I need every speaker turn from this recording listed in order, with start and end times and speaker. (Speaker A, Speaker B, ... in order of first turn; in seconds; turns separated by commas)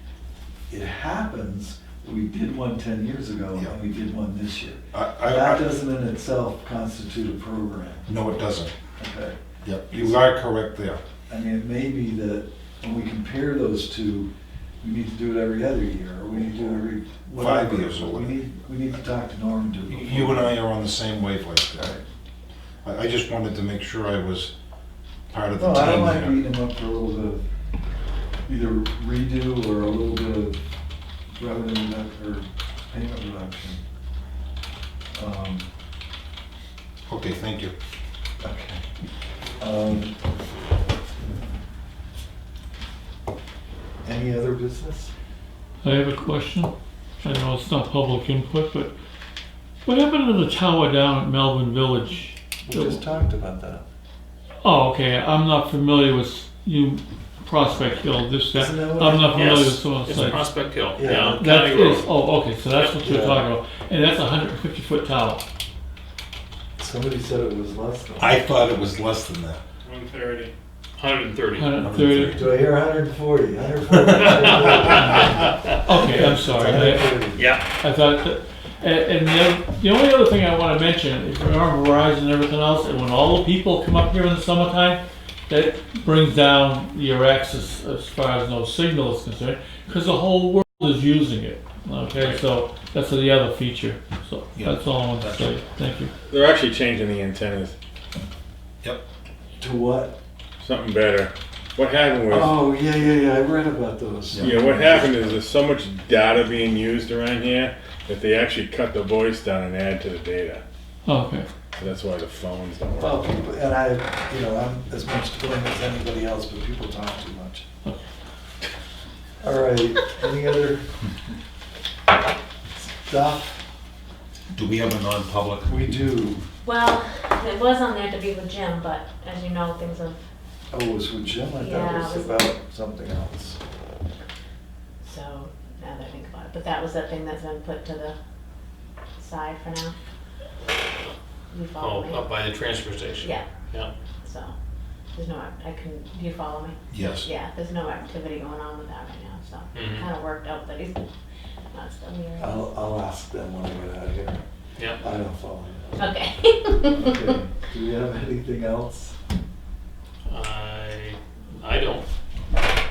Speaker A: 0.7-8.1, Speaker B: 4.9-5.7, Speaker B: 8.1-8.7, Speaker A: 9.0-9.4, Speaker B: 9.6-11.0, Speaker A: 9.9-10.2, Speaker A: 11.3-14.3, Speaker A: 14.8-20.6, Speaker B: 17.4-18.4, Speaker B: 19.9-22.0, Speaker B: 22.8-24.5, Speaker B: 25.3-26.4, Speaker A: 25.6-27.4, Speaker A: 28.4-30.6, Speaker A: 31.3-33.8, Speaker A: 35.1-35.7, Speaker B: 37.1-37.7, Speaker A: 38.4-38.8, Speaker A: 39.6-40.2, Speaker A: 44.0-45.1, Speaker C: 45.8-48.9, Speaker C: 49.9-53.0, Speaker A: 52.6-53.8, Speaker C: 54.6-60.5, Speaker A: 58.5-59.7, Speaker D: 59.3-62.1, Speaker A: 60.9-61.5, Speaker C: 61.2-65.4, Speaker D: 62.7-63.0, Speaker A: 63.0-63.4, Speaker A: 66.8-68.3, Speaker B: 68.2-69.6, Speaker D: 69.8-71.7, Speaker C: 71.5-72.5, Speaker B: 71.8-72.5, Speaker A: 72.4-77.5, Speaker D: 74.1-75.7, Speaker C: 74.3-77.2, Speaker D: 77.3-77.7, Speaker C: 77.8-96.1, Speaker B: 94.5-95.6, Speaker E: 96.3-97.7, Speaker A: 99.6-100.2, Speaker E: 100.6-102.5, Speaker A: 102.3-105.3, Speaker B: 104.3-104.6, Speaker E: 104.4-110.6, Speaker C: 111.0-111.5, Speaker E: 111.8-113.2, Speaker A: 113.0-117.7, Speaker A: 119.4-120.8, Speaker A: 122.7-123.6, Speaker B: 124.5-125.7, Speaker A: 125.7-126.4, Speaker F: 126.6-130.2, Speaker A: 130.7-133.6, Speaker F: 131.5-132.5, Speaker F: 135.0-138.2, Speaker F: 139.2-139.9, Speaker F: 141.5-142.3, Speaker D: 141.8-143.9, Speaker F: 143.2-143.5, Speaker F: 144.2-144.5, Speaker F: 145.1-150.9, Speaker B: 146.9-147.3, Speaker D: 149.7-150.1, Speaker F: 151.7-152.5, Speaker A: 152.4-154.4, Speaker A: 154.9-156.1, Speaker F: 156.0-157.2, Speaker A: 156.9-159.1, Speaker D: 160.3-162.0